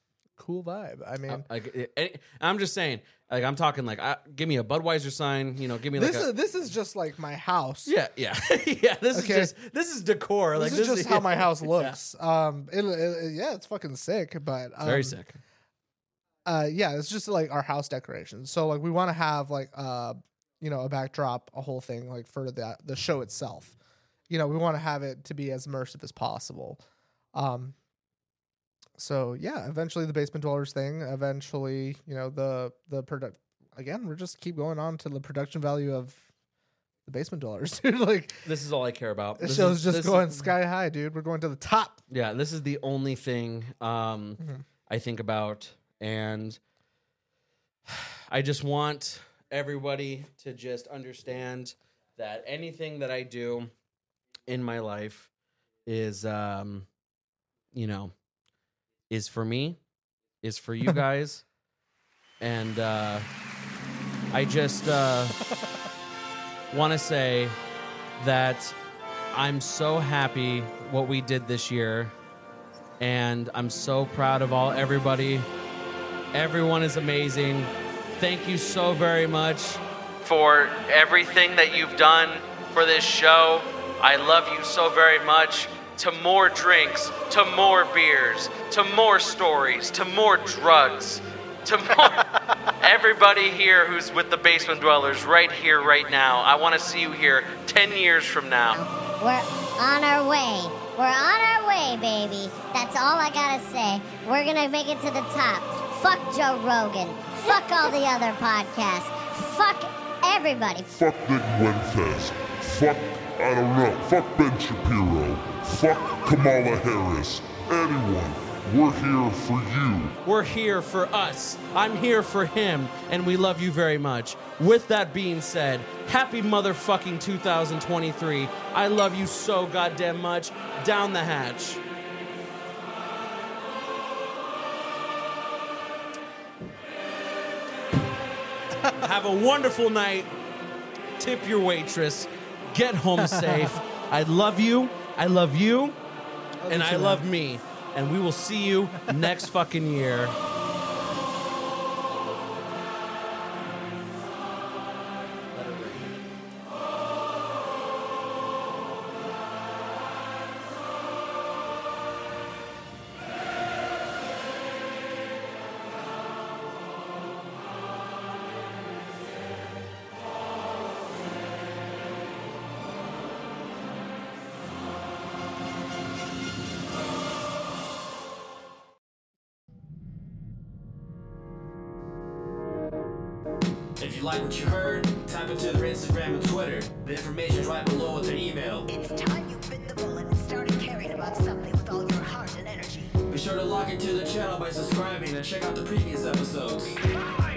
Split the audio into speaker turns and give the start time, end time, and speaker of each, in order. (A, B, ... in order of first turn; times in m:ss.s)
0:00.4-0:01.5 A
0:01.3-0:06.3 B
0:05.9-0:07.9 A
0:07.9-0:12.0 B
0:09.1-0:09.5 A
0:10.6-0:15.2 A
0:14.8-0:15.4 B
0:16.4-0:23.8 A
0:24.3-0:26.8 A
0:27.3-0:27.8 A
0:29.0-0:36.2 A
0:37.1-0:38.4 A
0:38.4-0:40.5 B
0:39.4-0:42.0 A
0:42.1-0:46.6 B
0:47.9-0:53.7 B
0:54.5-0:55.3 B
0:55.9-0:56.9 B
0:57.7-0:58.1 B
0:59.1-0:59.8 B
1:00.4-1:01.4 B
1:02.4-1:03.3 B
1:04.3-1:05.4 B
1:06.7-1:07.6 B
1:08.2-1:08.8 B
1:09.3-1:12.1 B
1:13.0-1:15.5 B
1:16.3-1:38.8 B
1:38.8-1:50.9 C
1:50.9-2:00.2 D
2:00.2-2:11.8 B
2:18.9-2:20.4 B
2:21.2-2:26.0 B
2:23.2-2:23.8 A
2:26.6-2:27.3 A
2:26.7-2:30.4 B
2:32.1-2:32.6 B
2:35.5-2:36.1 B
3:04.0-3:08.9 E
3:08.9-3:13.1 F
3:13.3-3:17.0 E